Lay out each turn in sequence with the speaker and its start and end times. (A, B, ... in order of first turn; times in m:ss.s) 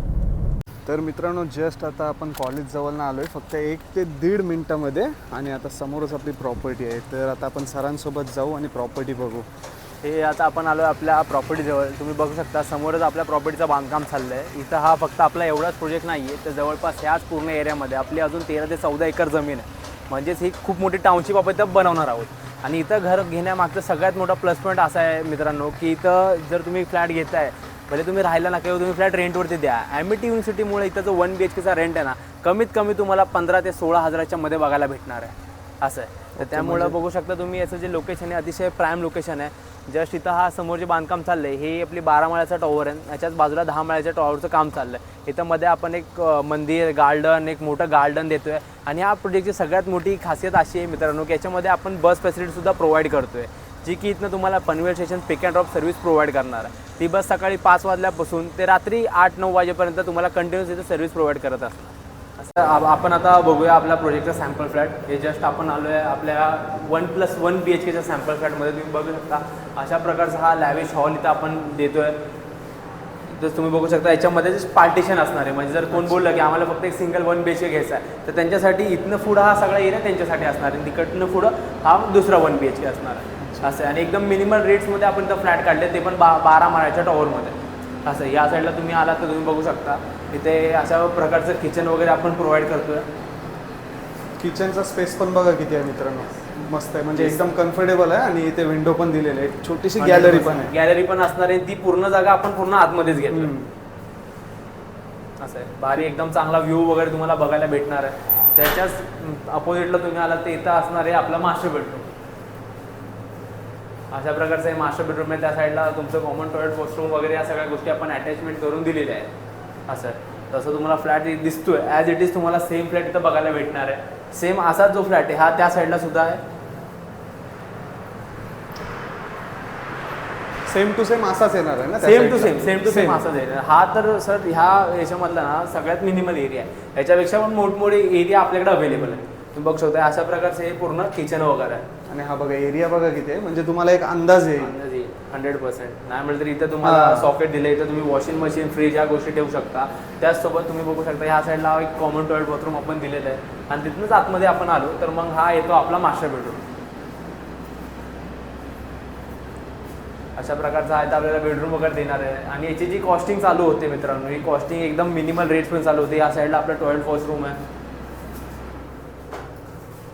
0:00.8-0:09.5 A
0:10.0-1:12.2 B
0:36.4-0:37.0 A
1:13.3-1:33.1 B
1:15.9-1:16.3 A
1:23.4-1:23.7 A
1:34.4-1:40.7 A
1:37.1-1:37.5 B
1:40.0-1:43.5 B
1:43.3-1:43.7 A
1:45.4-1:52.1 B
1:54.1-1:59.3 B
1:59.9-2:06.4 B
2:10.7-2:13.2 A
2:12.0-2:21.8 B
2:18.9-2:19.2 A
2:22.1-2:24.7 A
2:24.6-2:36.6 B
2:26.8-2:27.3 A
2:40.4-2:47.6 B